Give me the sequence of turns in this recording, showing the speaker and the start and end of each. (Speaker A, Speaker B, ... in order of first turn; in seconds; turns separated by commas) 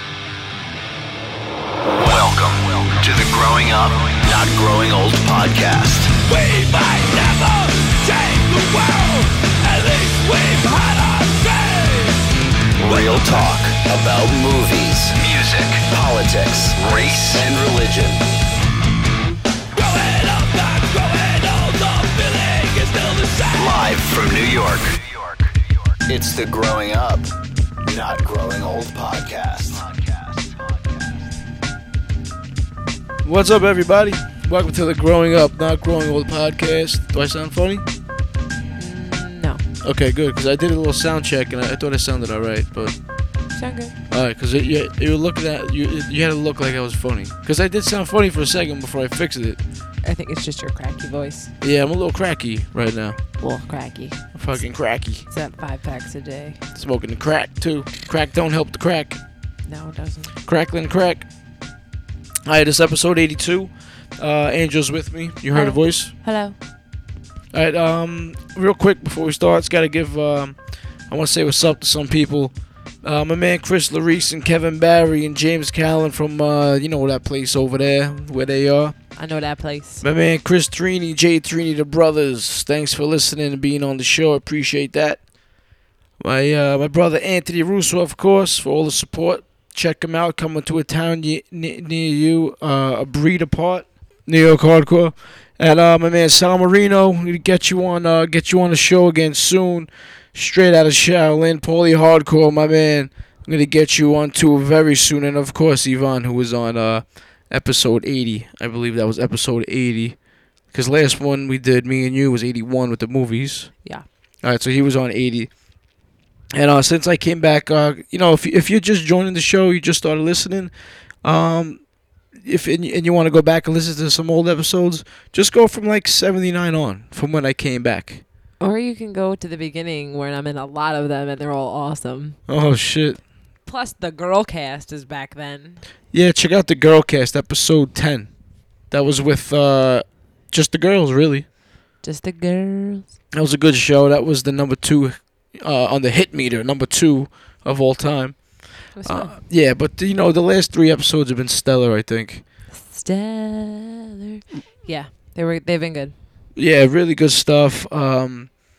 Speaker A: 2.0-6.1, Speaker B: 6.3-12.2, Speaker A: 12.8-18.2, Speaker B: 12.8-13.5, Speaker B: 16.8-17.5, Speaker B: 19.7-24.0, Speaker A: 23.6-25.5, Speaker A: 26.1-27.3, Speaker A: 27.9-31.3, Speaker C: 33.2-37.8, Speaker D: 38.8-39.6, Speaker C: 39.8-43.0, Speaker D: 43.5-43.9, Speaker C: 44.1-49.6, Speaker D: 50.0-51.5, Speaker C: 51.6-53.2, Speaker D: 53.4-56.6, Speaker C: 54.3-55.2, Speaker C: 56.8-59.2, Speaker D: 59.7-60.3, Speaker C: 60.5-61.3, Speaker C: 62.5-66.1, Speaker D: 65.5-66.5, Speaker C: 67.5-79.0, Speaker D: 79.2-80.0, Speaker C: 80.0-85.2, Speaker C: 86.2-113.8, Speaker C: 114.4-115.5, Speaker C: 116.5-128.2, Speaker D: 128.6-132.4, Speaker C: 132.5-133.2, Speaker D: 133.6-135.8, Speaker C: 136.1-138.3, Speaker C: 138.9-141.5, Speaker D: 142.0-143.1, Speaker C: 143.3-152.4, Speaker D: 148.9-149.4, Speaker D: 152.7-156.1, Speaker C: 156.5-158.6